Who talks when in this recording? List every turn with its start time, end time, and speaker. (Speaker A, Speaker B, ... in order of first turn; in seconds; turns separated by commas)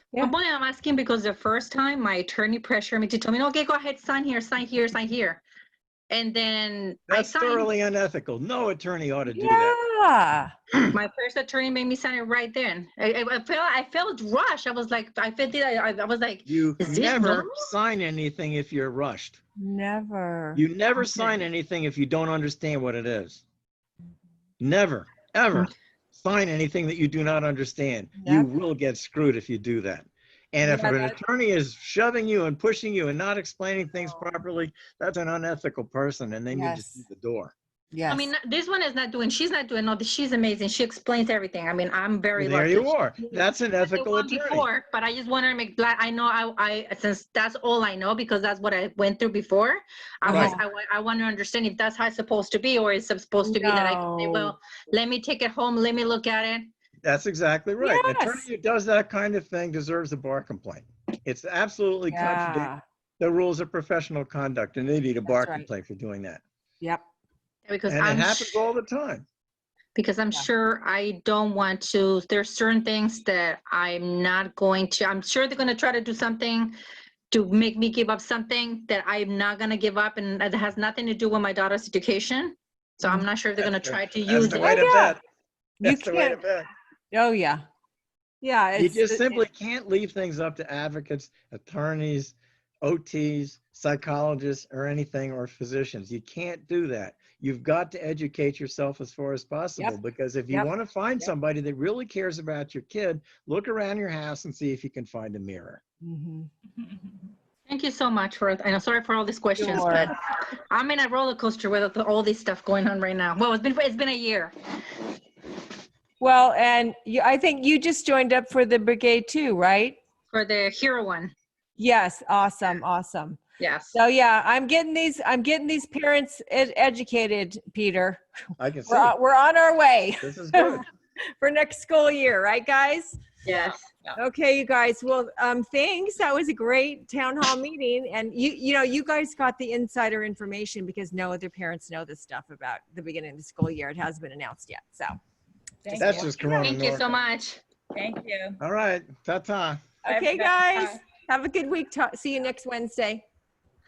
Speaker A: 0.2-5.4, Speaker A: 6.1-7.7, Speaker B: 7.1-9.8, Speaker C: 9.3-10.5, Speaker A: 10.9-17.7, Speaker B: 16.5-19.4, Speaker C: 19.6-21.4, Speaker B: 20.6-23.4, Speaker B: 24.6-37.5, Speaker C: 28.2-28.5, Speaker C: 30.6-31.2, Speaker C: 36.5-37.0, Speaker C: 37.9-38.3, Speaker A: 38.1-43.0, Speaker B: 42.4-44.7, Speaker A: 43.8-56.7, Speaker C: 50.2-50.6, Speaker B: 50.3-50.6, Speaker C: 53.4-54.5, Speaker B: 57.0-66.4, Speaker C: 57.8-58.5, Speaker C: 62.1-62.8, Speaker C: 65.2-65.7, Speaker A: 67.7-68.6, Speaker B: 67.9-69.2, Speaker A: 69.9-76.8, Speaker A: 77.3-85.1, Speaker B: 83.6-85.2, Speaker C: 84.4-85.2, Speaker B: 85.8-86.7, Speaker C: 85.8-86.4, Speaker C: 87.1-87.6, Speaker C: 88.4-89.4, Speaker B: 88.8-105.8, Speaker C: 106.0-106.5, Speaker A: 107.7-110.1, Speaker C: 109.6-110.1, Speaker A: 110.7-114.5, Speaker C: 116.2-120.0, Speaker A: 120.3-121.3, Speaker C: 121.8-123.4, Speaker A: 123.6-124.0, Speaker C: 123.9-128.2, Speaker B: 128.6-129.1, Speaker C: 128.9-130.8, Speaker B: 130.2-130.8, Speaker C: 131.4-133.2, Speaker A: 133.4-133.9, Speaker C: 134.2-145.2, Speaker D: 145.8-146.3, Speaker A: 145.9-147.6, Speaker B: 145.9-147.2, Speaker C: 146.0-146.3, Speaker D: 147.9-148.6, Speaker B: 148.6-149.8, Speaker C: 150.0-153.2, Speaker D: 150.1-150.9